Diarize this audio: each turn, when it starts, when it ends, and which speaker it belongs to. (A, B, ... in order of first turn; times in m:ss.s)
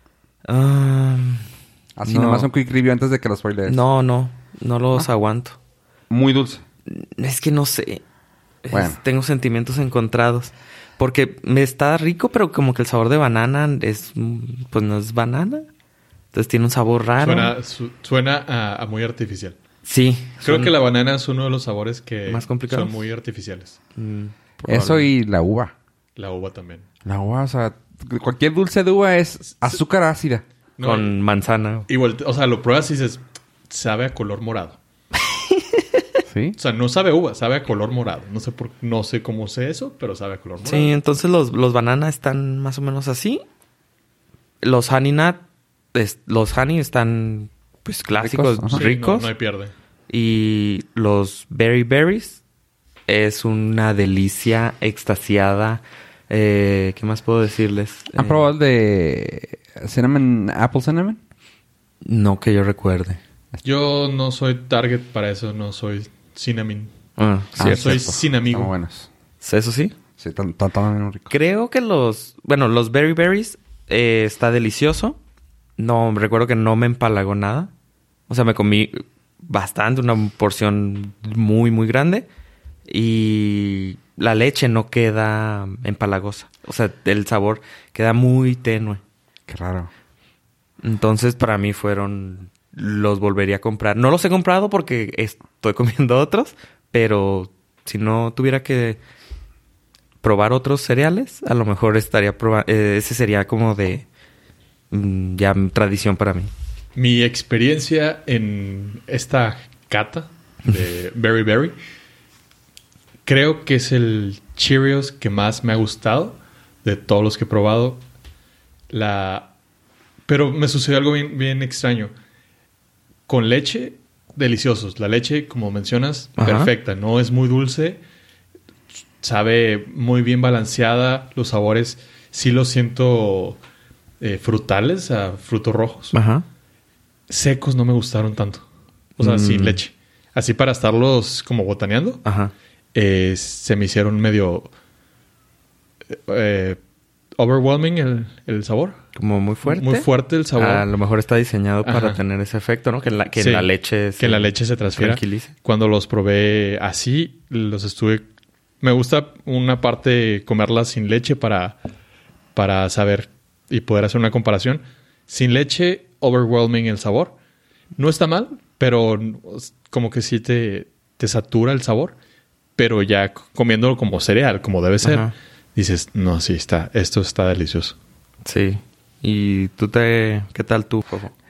0:00.5-0:01.4 A
0:02.0-0:03.8 B
0:02.0-0:02.5 A
0:03.7-0:05.6 A
0:06.1-0:06.6 B
0:06.9-0:08.0 A
0:08.6-0:15.7 A
0:08.7-0:09.0 B
0:16.3-0:17.5 A
0:17.2-0:19.6 C
0:19.8-0:20.8 A
0:20.4-0:23.8 C
0:22.2-0:23.0 A
0:24.0-0:25.1 A
0:24.7-0:25.7 B
0:26.2-0:26.9 C
0:27.0-0:30.4 B
0:30.8-0:31.1 C
0:30.8-0:31.9 A
0:31.9-0:34.8 C
0:35.3-0:35.8 A
0:36.3-0:36.6 B
0:36.6-0:40.9 C
0:40.6-0:43.4 A
0:44.6-0:49.3 A
0:48.1-0:48.9 B
0:48.7-0:49.7 C
0:50.1-0:52.4 A
0:53.1-0:58.5 A
0:58.1-1:01.2 B
1:02.0-1:03.2 A
1:03.6-1:06.9 C
1:07.2-1:08.0 A
1:07.6-1:08.8 C
1:07.6-1:09.1 B
1:09.4-1:09.9 A
1:10.2-1:11.3 B
1:11.3-1:15.2 A
1:15.8-1:17.7 A
1:18.3-1:22.3 A
1:22.9-1:29.0 A
1:29.5-1:29.9 B
1:30.8-1:39.0 A
1:40.2-1:44.0 A
1:44.9-1:46.5 A
1:47.0-1:51.8 C
1:53.2-1:58.0 C
1:58.9-1:59.5 C
2:00.3-2:02.1 C
2:03.3-2:08.0 C
2:06.4-2:06.7 A
2:09.2-2:13.6 C
2:14.2-2:16.1 C
2:16.1-2:16.5 A
2:17.3-2:18.6 C
2:19.2-2:22.2 C
2:19.2-2:19.8 A
2:22.2-2:22.5 A
2:23.0-2:24.7 C
2:26.1-2:26.8 C
2:27.4-2:29.0 C
2:29.1-2:35.5 A
2:29.6-2:30.9 C
2:31.8-2:32.2 C
2:33.3-2:38.2 C
2:38.8-2:41.8 C
2:42.6-2:47.3 C
2:48.0-2:52.1 C
2:52.8-2:58.0 C
2:55.0-2:55.3 A
2:58.4-3:01.3 A